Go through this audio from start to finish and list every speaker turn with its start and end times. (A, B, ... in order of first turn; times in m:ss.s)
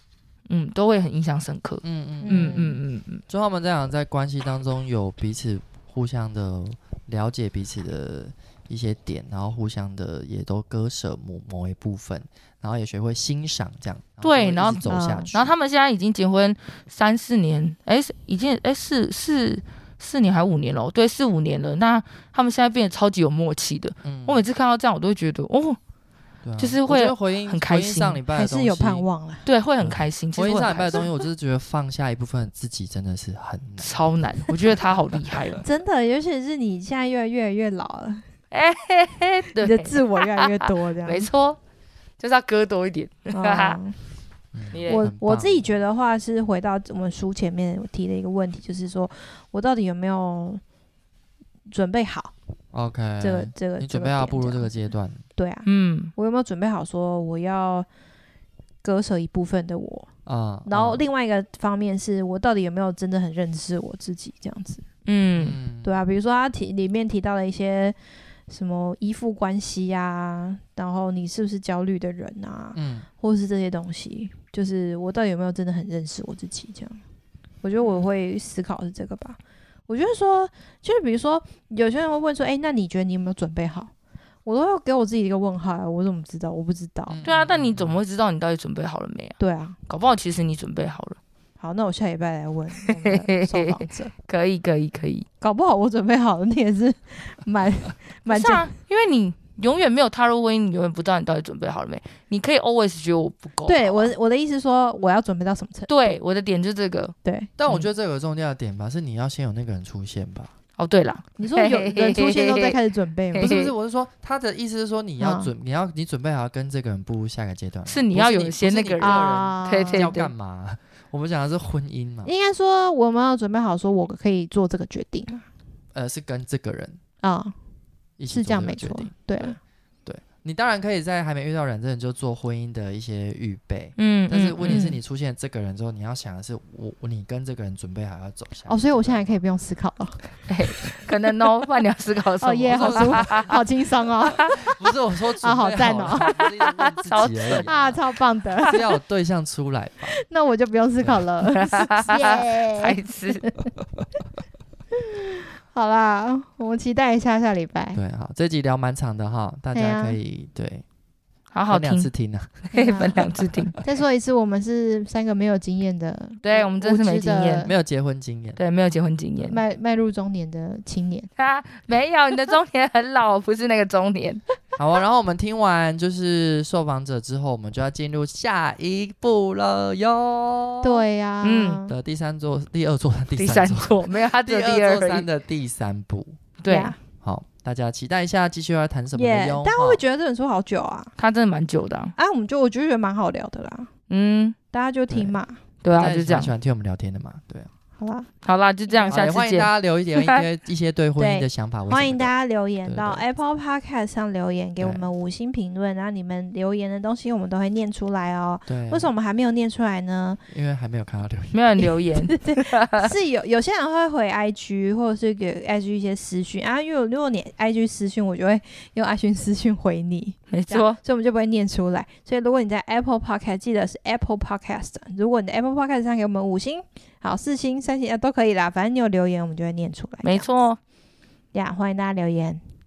0:00.5-0:03.2 A
0:01.8-0:02.7 B
0:02.2-0:02.8 C
0:03.3-0:15.5 B
0:14.2-0:25.8 A
0:14.9-0:15.3 C
0:24.0-0:24.4 B
0:26.4-0:29.0 B
0:26.6-0:28.2 A
0:28.3-0:29.4 C
0:29.4-0:31.1 A
0:29.8-0:35.6 B
0:33.8-0:35.6 A
0:35.6-0:38.2 C
0:38.5-0:41.6 A
0:39.6-0:41.3 C
0:42.2-0:43.8 A
0:43.3-0:44.0 C
0:44.5-0:45.7 B
0:44.7-0:45.0 A
0:44.9-0:50.6 C
0:51.7-0:52.3 C
0:52.7-0:55.2 B
0:53.2-0:54.7 C
0:55.4-0:57.9 C
0:55.6-0:56.1 A
0:58.8-1:00.1 C
1:00.2-1:01.0 B
1:00.6-1:04.8 C
1:05.0-1:05.6 A
1:05.3-1:06.0 B
1:05.8-1:08.0 C
1:08.5-1:17.0 C
1:12.7-1:13.0 B
1:17.6-1:23.9 C
1:24.4-1:27.2 C
1:27.1-1:28.0 B
1:27.2-1:31.2 A
1:29.4-1:29.8 C
1:31.6-1:34.1 C
1:32.9-1:35.3 A
1:35.4-1:38.7 C
1:38.3-1:44.1 A
1:43.7-1:46.2 C
1:45.9-1:47.1 A
1:47.2-1:47.5 C
1:47.6-1:50.5 B
1:50.8-1:52.8 A
1:51.4-1:53.6 C
1:53.3-1:53.7 A
1:53.4-2:02.3 B
1:55.2-1:55.5 C
1:57.9-2:00.3 A
1:59.0-2:00.1 C
2:02.2-2:05.4 C
2:05.9-2:07.0 B
2:07.2-2:07.6 C
2:08.2-2:19.4 B
2:08.3-2:09.6 C
2:14.0-2:14.9 A
2:14.6-2:15.0 C
2:18.7-2:20.2 C
2:20.5-2:23.5 A
2:22.4-2:24.6 C
2:22.7-2:23.6 B
2:24.3-2:28.0 B
2:25.4-2:26.3 C
2:26.2-2:27.6 A
2:27.5-2:28.8 C
2:28.6-2:30.2 B
2:30.2-2:33.7 C
2:31.0-2:31.3 B
2:31.5-2:33.4 A
2:35.3-2:38.0 C
2:37.9-2:40.8 B
2:39.7-2:40.2 C
2:41.5-2:42.1 A
2:41.7-2:43.7 B
2:42.6-2:43.8 A
2:42.7-2:43.2 C
2:43.8-2:47.7 C
2:46.4-2:47.7 A
2:47.6-2:48.6 B
2:48.6-2:49.6 A
2:49.4-2:51.3 C
2:51.4-2:54.4 A
2:54.8-3:01.0 B
3:00.8-3:01.9 C
3:01.4-3:01.8 A
3:01.9-3:06.4 B
3:03.4-3:05.3 A
3:06.6-3:06.9 A
3:06.7-3:07.0 C
3:07.2-3:10.0 B
3:09.1-3:11.1 C
3:11.2-3:12.1 A
3:12.2-3:13.9 C
3:14.1-3:14.6 A
3:14.7-3:15.6 C
3:15.1-3:15.4 B
3:15.8-3:16.5 A
3:15.9-3:17.7 B
3:18.0-3:18.3 C
3:18.4-3:20.4 A
3:18.9-3:19.2 C
3:19.1-3:22.3 B
3:21.2-3:30.4 C
3:22.8-3:23.2 B
3:24.8-3:25.0 B
3:28.7-3:29.1 B
3:30.5-3:31.7 B
3:31.5-3:33.1 A
3:32.2-3:50.5 C
3:40.5-3:41.0 A
3:50.2-3:50.8 A
3:51.5-3:52.6 C